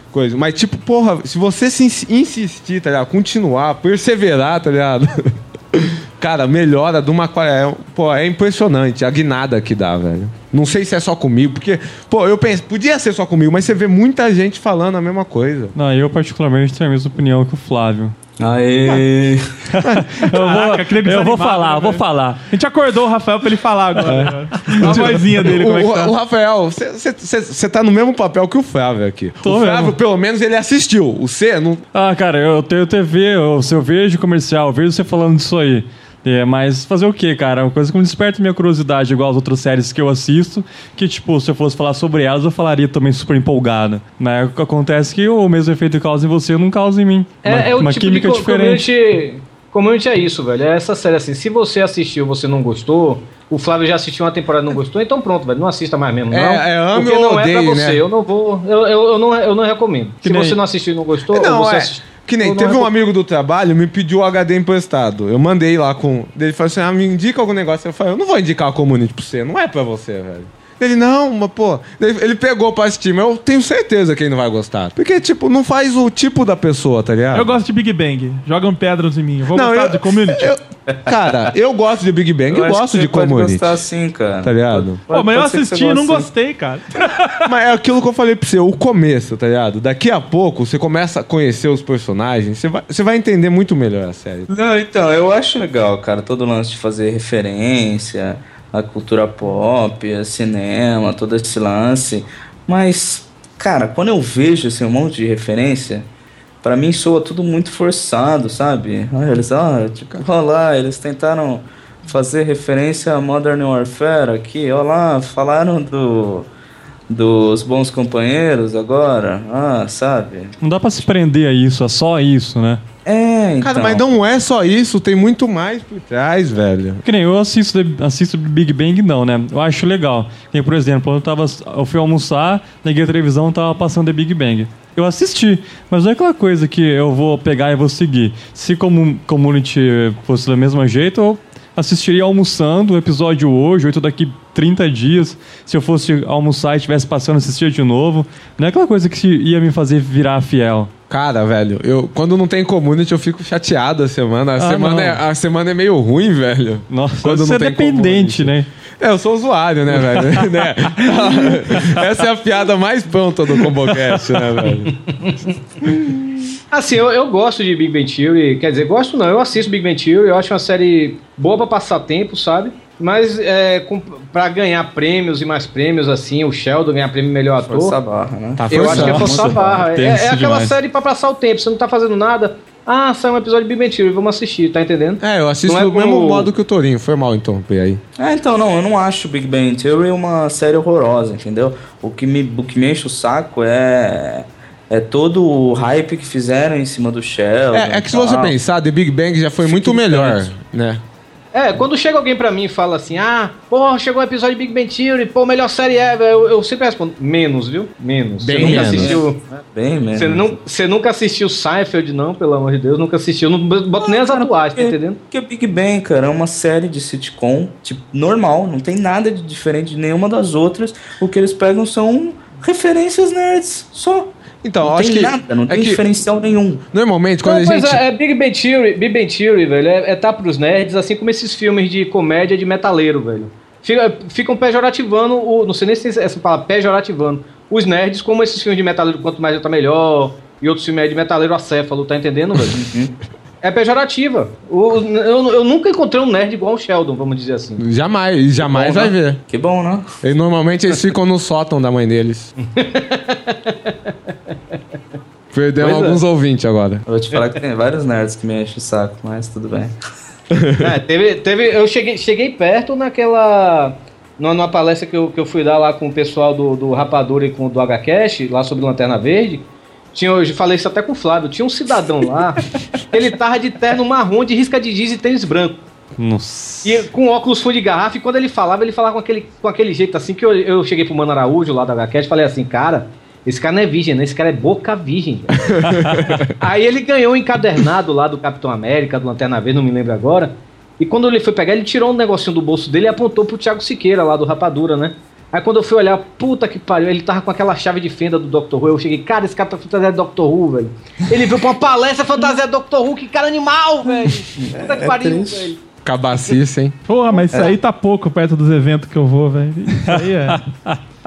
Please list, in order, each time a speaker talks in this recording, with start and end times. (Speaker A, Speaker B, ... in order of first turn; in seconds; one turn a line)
Speaker A: 0.1-15.7
Speaker B: 15.8-18.1
Speaker C: 18.4-19.6
Speaker B: 19.7-22.4
Speaker A: 19.8-20.1
Speaker D: 20.2-26.1
Speaker A: 24.1-31.8
Speaker B: 24.2-25.0
Speaker B: 29.4-29.9
Speaker B: 31.9-48.9
Speaker E: 47.4-62.9
Speaker A: 56.3-58.0
Speaker B: 60.3-60.5
Speaker A: 61.3-77.6
Speaker D: 77.3-80.5
Speaker A: 79.5-83.8
Speaker C: 82.5-86.3
Speaker A: 84.4-85.0
Speaker D: 85.1-87.5
Speaker A: 87.5-94.5
Speaker C: 94.5-106.1
Speaker C: 106.6-116.5
Speaker C: 117.1-120.6
Speaker B: 120.6-122.8
Speaker C: 123.1-124.1
Speaker A: 123.6-127.0
Speaker B: 127.0-150.9
Speaker A: 151.1-164.9
Speaker B: 154.6-155.2
Speaker B: 156.9-158.7
Speaker E: 166.7-178.0
Speaker C: 177.7-179.9
Speaker A: 178.6-179.3
Speaker E: 178.7-186.5
Speaker B: 179.9-180.8
Speaker A: 185.2-188.0
Speaker C: 188.2-198.5
Speaker A: 197.7-201.0
Speaker C: 199.7-200.4
Speaker E: 201.5-209.4
Speaker A: 208.4-209.2
Speaker C: 208.5-210.6
Speaker E: 210.1-215.2
Speaker C: 214.0-226.8
Speaker A: 224.6-226.0
Speaker A: 226.9-228.0
Speaker E: 227.4-242.8
Speaker C: 242.7-243.1
Speaker E: 243.6-247.8
Speaker A: 247.8-249.4
Speaker C: 248.6-250.1
Speaker A: 250.2-252.5
Speaker E: 252.6-254.1
Speaker A: 255.5-257.1
Speaker E: 255.8-256.2
Speaker C: 257.1-259.9
Speaker A: 260.5-260.9
Speaker E: 260.8-275.8
Speaker B: 276.2-277.0
Speaker E: 276.8-285.7
Speaker A: 285.6-286.5
Speaker B: 286.0-286.3
Speaker E: 286.6-305.8
Speaker C: 304.6-305.7
Speaker A: 306.0-307.0
Speaker D: 307.1-310.6
Speaker B: 310.1-311.0